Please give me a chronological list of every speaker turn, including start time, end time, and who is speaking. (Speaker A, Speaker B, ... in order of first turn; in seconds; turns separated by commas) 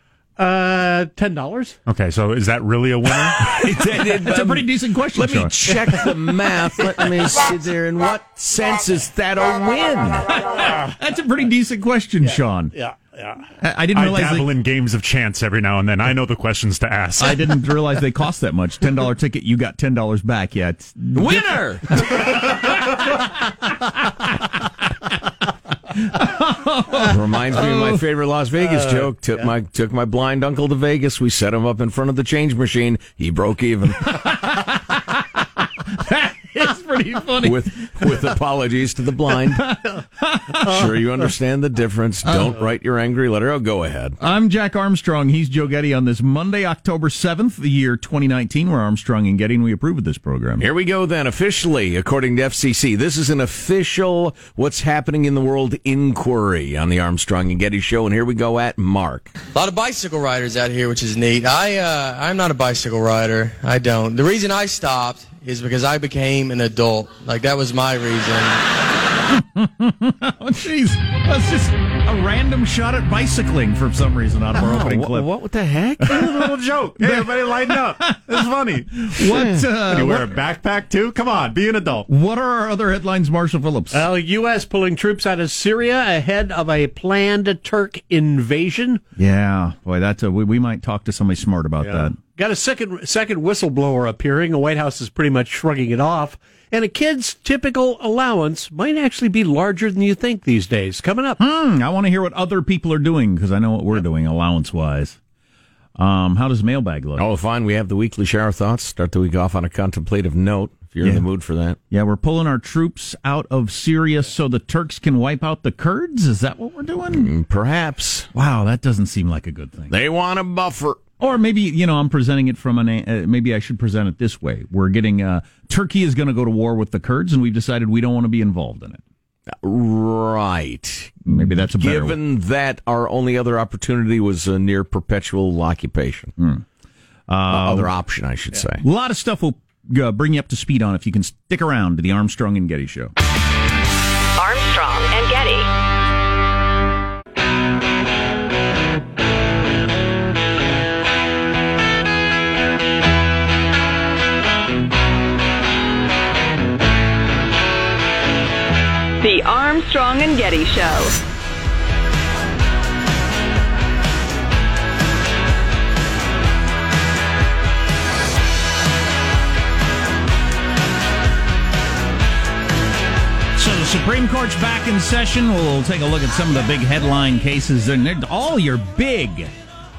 Speaker A: 0.4-1.8, Speaker B: 1.9-3.5, Speaker C: 3.4-10.3, Speaker D: 3.5-5.6, Speaker D: 10.5-12.7, Speaker A: 12.7-13.4, Speaker D: 13.6-14.5, Speaker B: 13.9-17.6, Speaker D: 17.2-22.2, Speaker C: 21.1-22.5, Speaker D: 26.0-27.2, Speaker C: 27.1-34.3, Speaker A: 28.7-29.5, Speaker D: 34.1-38.0, Speaker C: 37.4-39.6, Speaker D: 39.5-40.8, Speaker C: 40.6-44.2, Speaker D: 42.3-42.5, Speaker D: 44.2-50.6, Speaker C: 50.6-59.4, Speaker E: 59.5-68.6, Speaker D: 69.3-75.3, Speaker C: 74.5-76.4, Speaker B: 76.1-82.1, Speaker D: 77.0-78.4, Speaker D: 79.0-80.3, Speaker D: 82.1-84.0, Speaker A: 83.9-89.0, Speaker D: 89.2-92.2, Speaker A: 91.8-101.4, Speaker D: 101.4-105.2, Speaker D: 106.0-107.2, Speaker C: 107.2-111.8, Speaker D: 111.9-117.3, Speaker C: 117.1-118.3, Speaker D: 118.3-119.9, Speaker C: 119.9-121.0, Speaker D: 121.2-129.0, Speaker C: 129.6-136.3, Speaker D: 131.3-132.2, Speaker D: 136.4-136.6, Speaker D: 137.3-137.9, Speaker C: 137.5-138.8, Speaker D: 138.8-143.1, Speaker F: 144.4-145.7, Speaker F: 159.2-161.2, Speaker D: 173.6-179.5